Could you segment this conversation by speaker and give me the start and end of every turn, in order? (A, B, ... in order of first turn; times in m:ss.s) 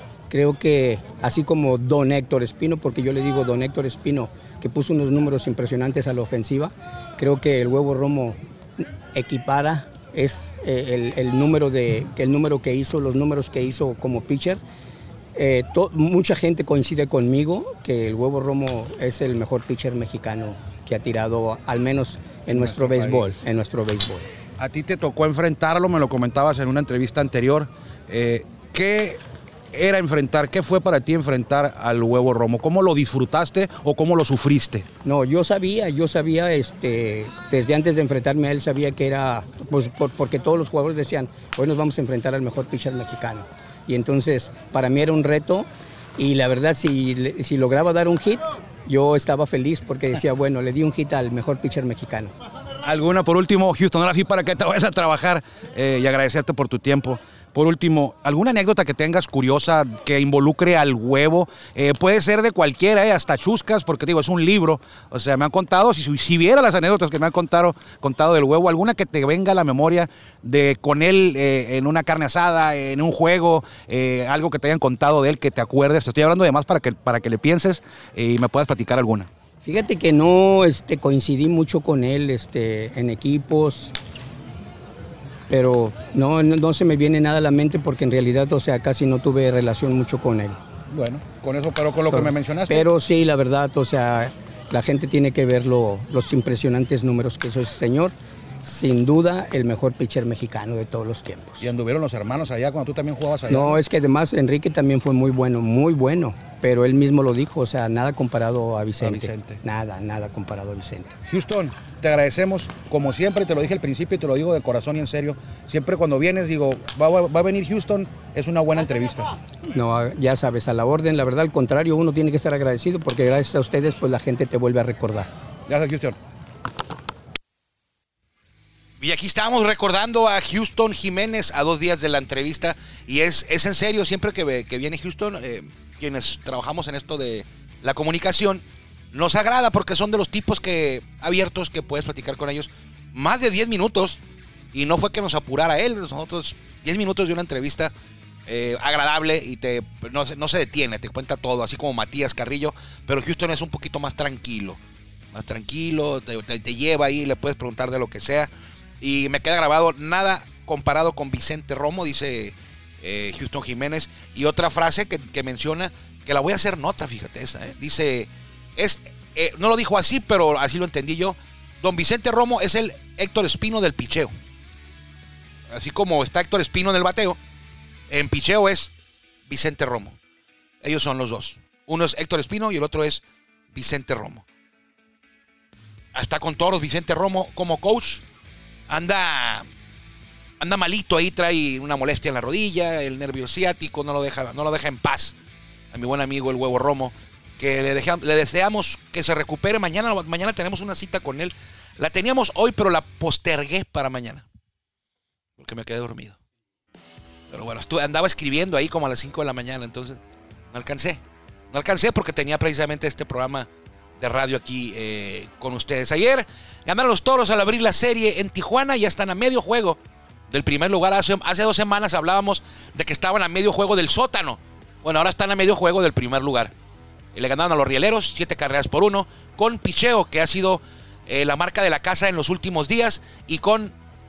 0:00.3-0:14.6 A
0:15.3-0:24.3 A
0:22.5-0:23.3 B
0:24.6-0:29.2 B
0:29.7-0:34.8 B
0:35.0-0:52.3 A
0:52.8-1:19.3 B
1:19.6-1:23.9 A
1:25.5-1:30.6 A
1:30.9-1:32.9 B
1:32.1-1:41.7 A
1:41.6-1:43.8 B
1:43.5-1:51.2 A
1:49.0-1:49.6 B
1:51.3-1:59.3 B
1:59.7-2:05.3 A
2:05.7-2:06.2 B
2:09.0-2:24.2 C
2:24.7-2:27.9 C
2:28.5-2:34.8 C
2:35.3-2:38.5 C
2:39.0-2:54.3 C
2:55.7-2:57.4 C
2:58.1-2:58.9 C
2:59.5-3:00.2 C
3:00.8-3:03.2 C
3:03.7-3:04.4 C
3:06.1-3:08.2 C
3:08.9-3:09.6 C
3:10.6-3:15.4 C
3:15.9-3:24.4 C
3:25.6-3:26.4 C
3:27.5-3:30.2 C
3:30.7-3:33.7 C
3:34.2-3:40.0 C
3:40.5-3:46.7 C
3:47.3-3:53.9 C